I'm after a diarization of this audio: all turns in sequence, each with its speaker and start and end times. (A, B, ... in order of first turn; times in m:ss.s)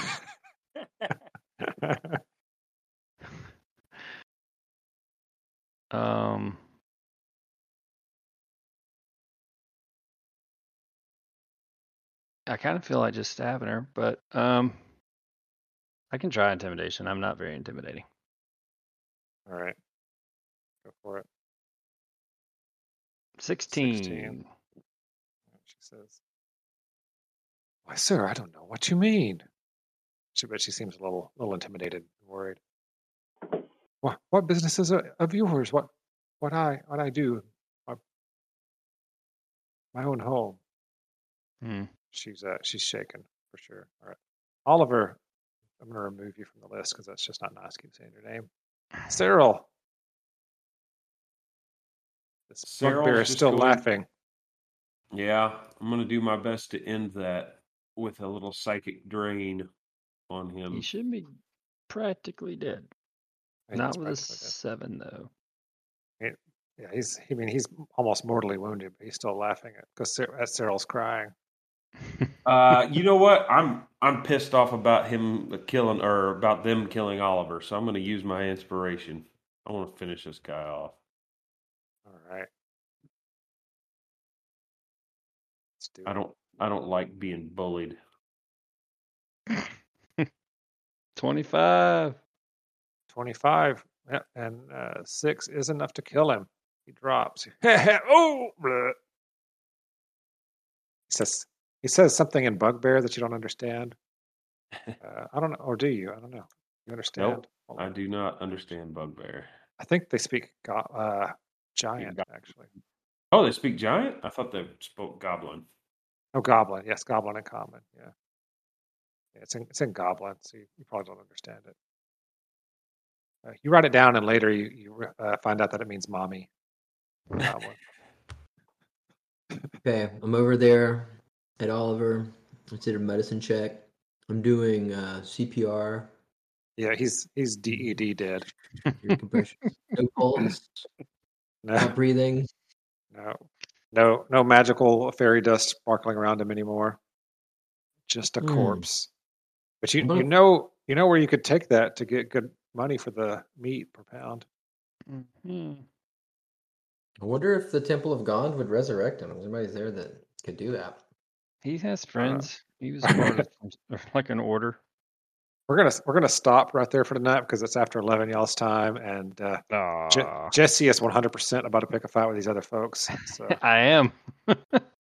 0:01.6-0:02.2 A
0:05.9-0:06.6 B
0:12.5-0:14.8 B
0:16.1-0:18.0 B
0:19.5-0:19.8 A
0:20.8-0:21.2 A
0:23.4-0:24.4 B
0:23.7-0:24.3 A
0:25.6-0:26.2 A
0:27.8-0:29.4 A
0:30.3-0:32.6 A
0:33.4-0:38.0 A
0:39.9-0:40.6 A
0:41.6-0:41.9 B
0:42.1-0:45.2 A
0:45.8-0:48.5 A
0:49.1-0:49.7 A
0:52.5-0:54.1 A
0:52.6-0:53.8 C
0:55.1-0:59.7 C
1:00.3-1:00.8 C
1:00.7-1:01.4 B
1:01.9-1:02.9 B
1:03.7-1:04.5 A
1:03.7-1:05.3 B
1:06.2-1:11.3 A
1:12.4-1:21.0 C
1:22.0-1:22.5 A
1:25.8-1:26.2 A
1:26.0-1:28.0 C
1:29.5-1:30.2 B
1:31.2-1:32.2 B
1:33.1-1:39.0 A
1:41.1-1:44.0 A
1:45.0-1:47.9 A
1:47.2-1:49.5 C
1:49.8-1:52.7 A
1:52.0-1:52.2 C
1:53.3-1:55.7 C
1:56.3-1:58.1 A
1:59.3-2:01.7 A
2:03.4-2:06.5 A
2:07.4-2:07.8 A
2:09.8-2:16.1 D
2:16.8-2:18.5 A
2:17.7-2:18.0 D
2:18.9-2:19.2 B
2:19.0-2:20.8 D
2:21.6-2:21.9 A
2:21.8-2:22.5 D
2:23.1-2:27.0 A
2:28.1-2:29.1 A
2:28.4-2:28.8 D
2:29.8-2:34.4 A
2:30.0-2:30.3 D
2:35.1-2:35.8 B
2:37.2-2:41.0 D
2:41.6-2:44.8 B
2:42.2-2:42.5 A
2:43.0-2:43.4 A
2:45.7-2:53.6 A
2:49.7-2:50.5 B
2:53.3-2:54.8 B